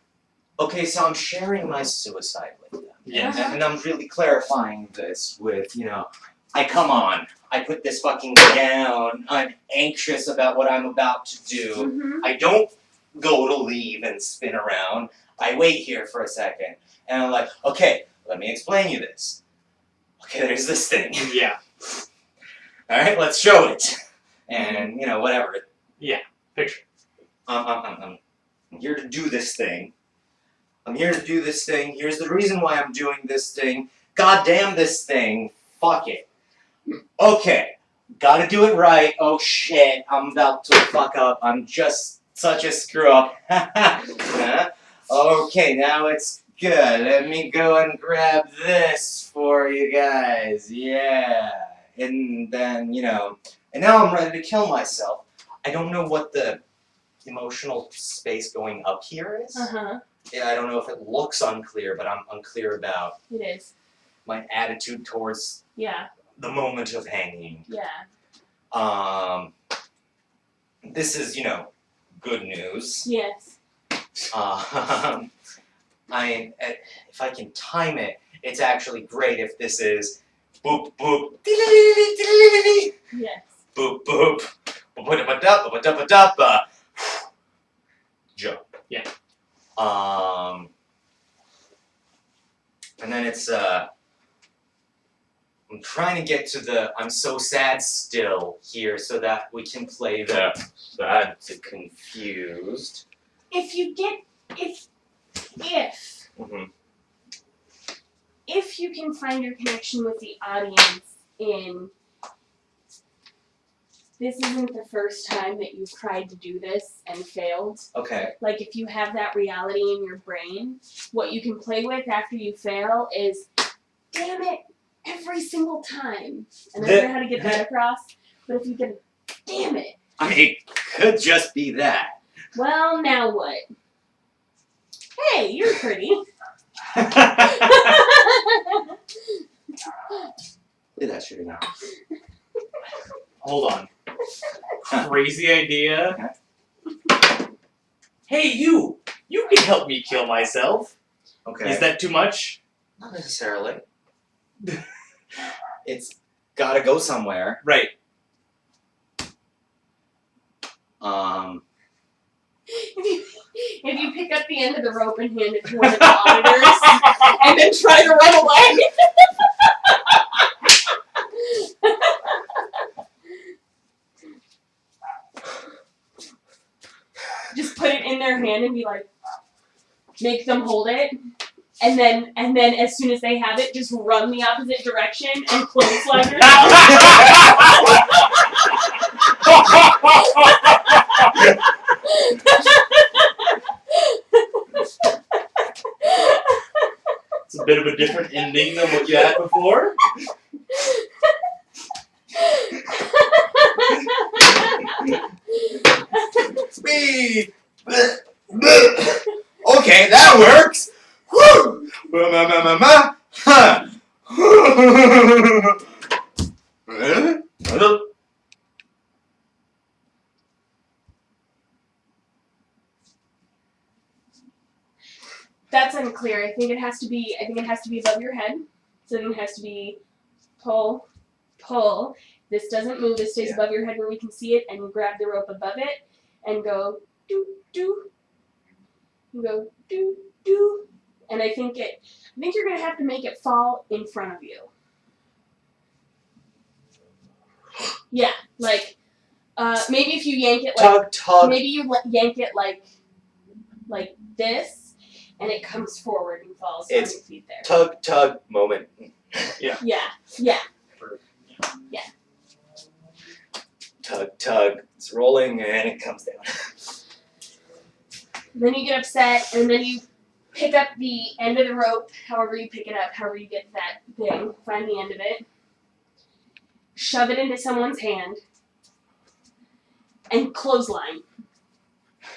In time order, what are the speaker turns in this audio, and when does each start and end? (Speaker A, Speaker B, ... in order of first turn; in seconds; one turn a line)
Speaker A: 0.6-19.4
Speaker B: 3.0-3.6
Speaker C: 3.1-3.6
Speaker C: 11.8-12.3
Speaker A: 20.2-21.5
Speaker B: 21.2-21.6
Speaker A: 22.9-25.6
Speaker C: 24.6-24.9
Speaker B: 26.0-26.8
Speaker A: 27.5-28.2
Speaker A: 28.7-29.9
Speaker A: 30.9-36.3
Speaker A: 37.2-56.6
Speaker A: 57.2-59.7
Speaker C: 59.5-60.0
Speaker A: 60.3-63.2
Speaker C: 63.3-63.7
Speaker A: 64.2-65.6
Speaker C: 65.8-66.1
Speaker A: 66.4-67.7
Speaker C: 67.7-68.0
Speaker A: 68.7-69.5
Speaker A: 70.8-73.1
Speaker C: 73.0-73.6
Speaker A: 74.3-75.3
Speaker A: 76.1-82.9
Speaker C: 83.1-83.5
Speaker A: 83.8-87.3
Speaker A: 88.3-88.7
Speaker A: 89.8-90.7
Speaker A: 93.0-93.9
Speaker A: 95.7-103.0
Speaker C: 103.5-104.9
Speaker C: 105.6-106.3
Speaker A: 106.4-106.7
Speaker C: 108.5-111.9
Speaker C: 114.2-117.9
Speaker A: 117.9-118.3
Speaker C: 118.4-123.5
Speaker C: 124.1-130.0
Speaker A: 126.8-127.6
Speaker A: 130.2-132.2
Speaker C: 132.6-133.6
Speaker C: 135.2-136.2
Speaker A: 136.9-138.0
Speaker C: 137.3-139.0
Speaker A: 141.0-141.7
Speaker B: 143.4-143.9
Speaker B: 144.9-146.2
Speaker A: 146.1-146.3
Speaker B: 148.3-150.9
Speaker A: 151.4-151.9
Speaker B: 151.6-152.6
Speaker A: 153.0-153.8
Speaker A: 155.8-157.6
Speaker B: 157.6-157.9
Speaker A: 161.0-161.6
Speaker C: 162.7-170.4
Speaker B: 165.9-167.1
Speaker C: 171.2-172.6
Speaker C: 177.5-179.1
Speaker C: 180.2-181.2
Speaker C: 181.8-188.4
Speaker B: 187.2-187.6
Speaker B: 189.6-190.8
Speaker C: 191.3-195.1
Speaker C: 196.0-196.8
Speaker B: 197.5-200.0
Speaker C: 200.7-201.1
Speaker C: 202.4-206.4
Speaker A: 206.5-215.8
Speaker A: 216.9-218.1
Speaker C: 225.7-230.0
Speaker C: 230.6-231.1
Speaker C: 231.6-238.1
Speaker C: 239.3-244.7
Speaker C: 248.1-248.9
Speaker C: 249.6-252.9
Speaker A: 250.8-251.7
Speaker C: 253.9-257.8
Speaker A: 256.9-259.6
Speaker C: 259.8-260.6
Speaker A: 264.0-266.7
Speaker C: 268.5-275.5
Speaker C: 276.9-278.4
Speaker C: 280.3-281.2